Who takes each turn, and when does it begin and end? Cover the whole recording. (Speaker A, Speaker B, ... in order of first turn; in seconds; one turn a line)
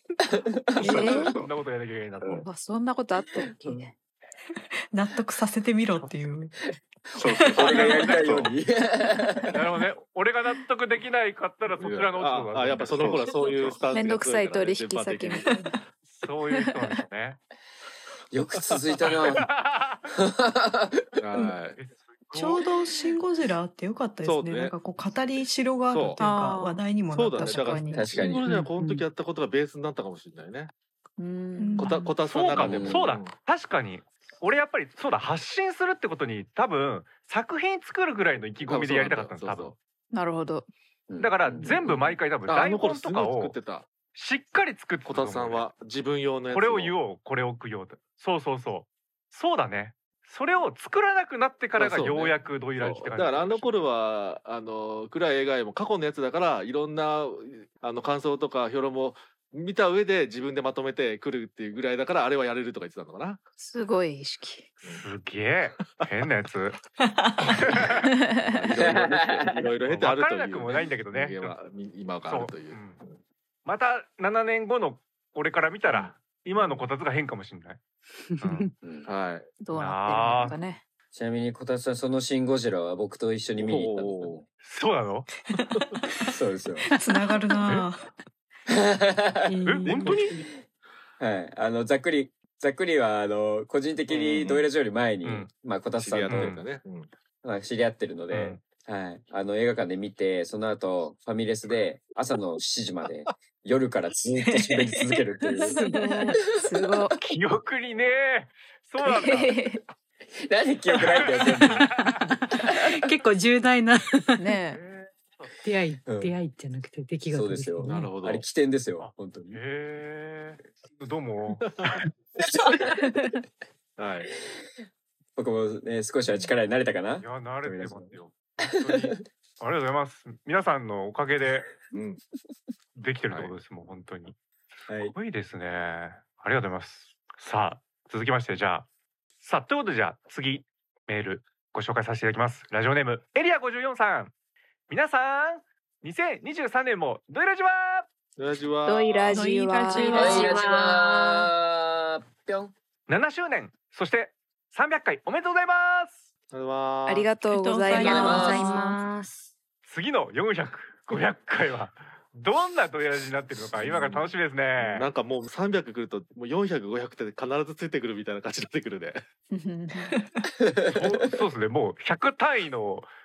Speaker A: 0.3-1.1
Speaker B: 0.8-1.5
Speaker C: 0.8-1.3
Speaker D: 1.1-2.5
Speaker C: 2.3-3.9
Speaker E: 4.9-6.5
Speaker B: 7.2-8.6
Speaker A: 7.5-9.6
Speaker D: 7.6-8.2
Speaker D: 9.5-13.8
Speaker F: 11.7-15.5
Speaker B: 13.0-13.3
Speaker C: 13.9-15.5
Speaker D: 16.1-17.4
Speaker A: 18.3-19.5
Speaker D: 19.1-20.0
Speaker A: 20.1-21.2
Speaker F: 21.2-21.8
Speaker D: 21.8-22.7
Speaker E: 22.3-27.9
Speaker F: 24.2-24.7
Speaker F: 25.9-26.2
Speaker C: 26.2-28.1
Speaker F: 27.1-30.7
Speaker A: 27.9-28.5
Speaker G: 28.4-29.0
Speaker C: 31.2-32.0
Speaker E: 31.6-32.2
Speaker F: 31.8-33.3
Speaker D: 32.2-39.7
Speaker A: 32.5-33.1
Speaker F: 38.6-39.8
Speaker C: 40.1-40.7
Speaker A: 41.1-41.9
Speaker D: 41.2-43.5
Speaker F: 41.9-43.9
Speaker D: 44.1-45.7
Speaker F: 45.1-47.0
Speaker D: 46.5-53.7
Speaker F: 51.8-63.4
Speaker C: 63.6-64.7
Speaker D: 64.8-66.8
Speaker D: 67.6-68.1
Speaker C: 68.3-68.6
Speaker F: 68.5-73.2
Speaker A: 68.8-69.6
Speaker D: 69.8-71.6
Speaker D: 72.2-73.0
Speaker D: 73.7-77.8
Speaker F: 75.9-76.9
Speaker D: 78.4-78.7
Speaker A: 78.8-79.1
Speaker F: 79.1-79.5
Speaker C: 79.6-80.8
Speaker D: 79.7-80.6
Speaker A: 81.1-84.5
Speaker F: 83.6-84.4
Speaker D: 84.6-85.3
Speaker A: 86.3-86.9
Speaker E: 86.9-88.1
Speaker A: 88.7-90.1
Speaker G: 89.5-90.2
Speaker D: 89.7-90.4
Speaker A: 91.2-96.7
Speaker F: 94.1-94.7
Speaker D: 95.2-95.5
Speaker F: 96.0-97.1
Speaker D: 96.3-96.6
Speaker A: 97.4-105.8
Speaker C: 105.6-107.2
Speaker G: 105.8-106.4
Speaker A: 106.4-106.9
Speaker D: 107.2-109.6
Speaker C: 109.0-109.8
Speaker A: 110.5-111.9
Speaker G: 111.6-114.5
Speaker D: 111.7-112.2
Speaker C: 114.4-114.8
Speaker D: 114.7-115.6
Speaker G: 115.6-118.1
Speaker A: 116.1-116.4
Speaker A: 117.3-119.6
Speaker F: 117.8-118.5
Speaker D: 119.0-122.1
Speaker F: 121.7-121.9
Speaker A: 122.4-122.9
Speaker F: 124.0-124.3
Speaker A: 125.4-128.2
Speaker D: 127.2-131.7
Speaker A: 128.8-129.2
Speaker F: 131.9-132.2
Speaker D: 133.0-134.4
Speaker D: 134.9-138.9
Speaker A: 134.9-135.2
Speaker D: 139.4-144.3
Speaker D: 144.9-148.1
Speaker F: 148.4-149.4
Speaker C: 148.8-150.6
Speaker E: 149.3-150.7
Speaker G: 149.9-151.5
Speaker A: 150.1-152.7
Speaker D: 153.1-156.2
Speaker F: 156.5-157.3
Speaker C: 157.1-158.9
Speaker E: 157.4-158.8
Speaker G: 157.9-159.4
Speaker A: 158.0-158.7
Speaker D: 159.8-165.1
Speaker F: 163.8-169.2
Speaker C: 169.5-170.1
Speaker A: 170.6-170.9
Speaker D: 170.9-173.1